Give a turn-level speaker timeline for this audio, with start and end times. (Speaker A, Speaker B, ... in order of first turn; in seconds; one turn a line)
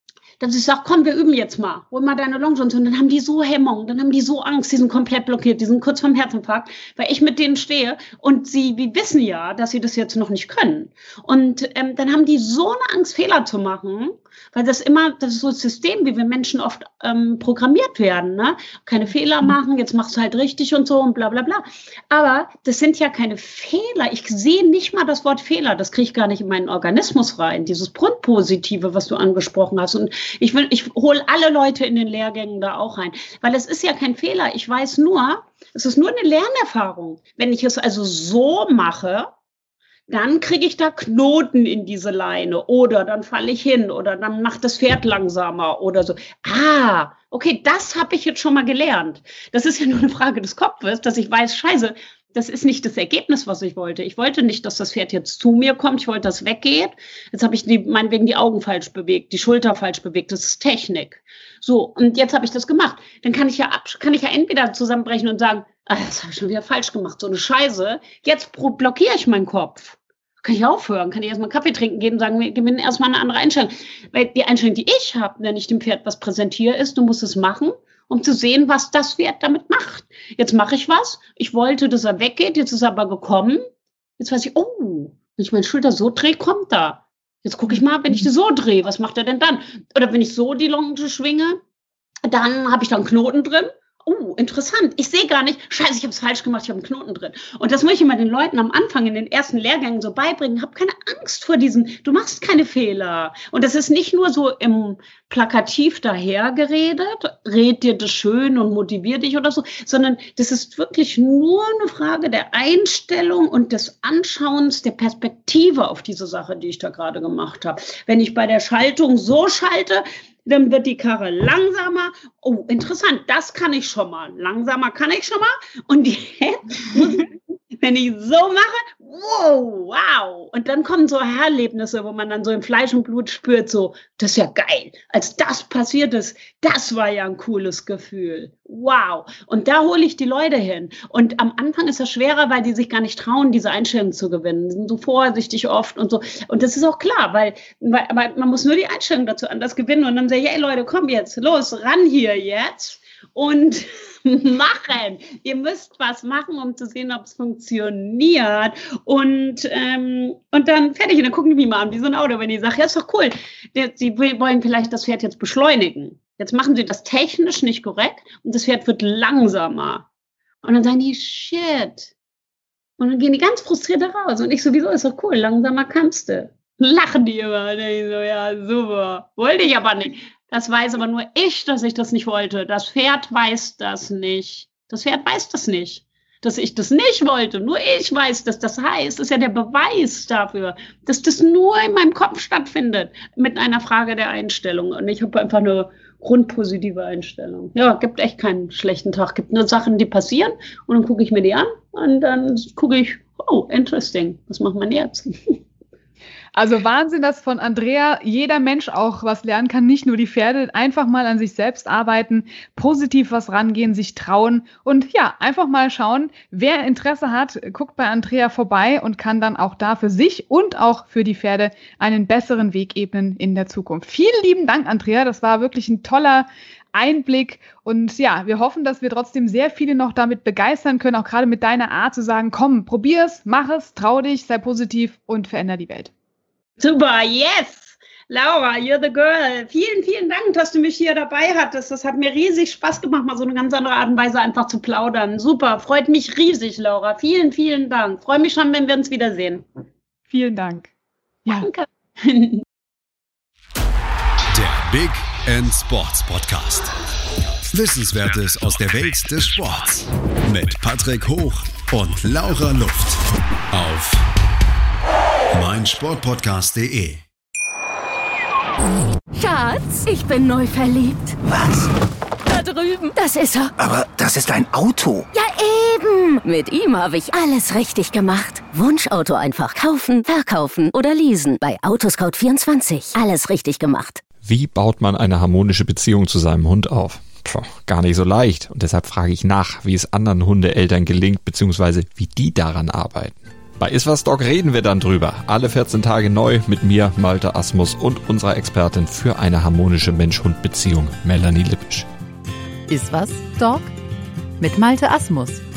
Speaker A: 0.4-39.3
Speaker A: 40.1-83.6
Speaker A: 84.2-91.6
Speaker A: 92.3-170.1
Speaker A: 170.6-172.1
Speaker A: 173.0-205.6
Speaker B: 206.5-236.1
Speaker A: 236.8-249.6
Speaker B: 250.3-250.9
Speaker B: 251.4-251.7
Speaker A: 251.5-252.6
Speaker C: 254.5-256.9
Speaker C: 257.7-263.2
Speaker C: 263.7-264.2
Speaker C: 265.5-267.2
Speaker D: 269.3-271.4
Speaker E: 271.5-271.9
Speaker D: 272.4-273.7
Speaker E: 273.8-275.3
Speaker D: 275.3-284.2
Speaker F: 284.4-302.1
Speaker G: 302.9-303.9
Speaker G: 304.6-305.6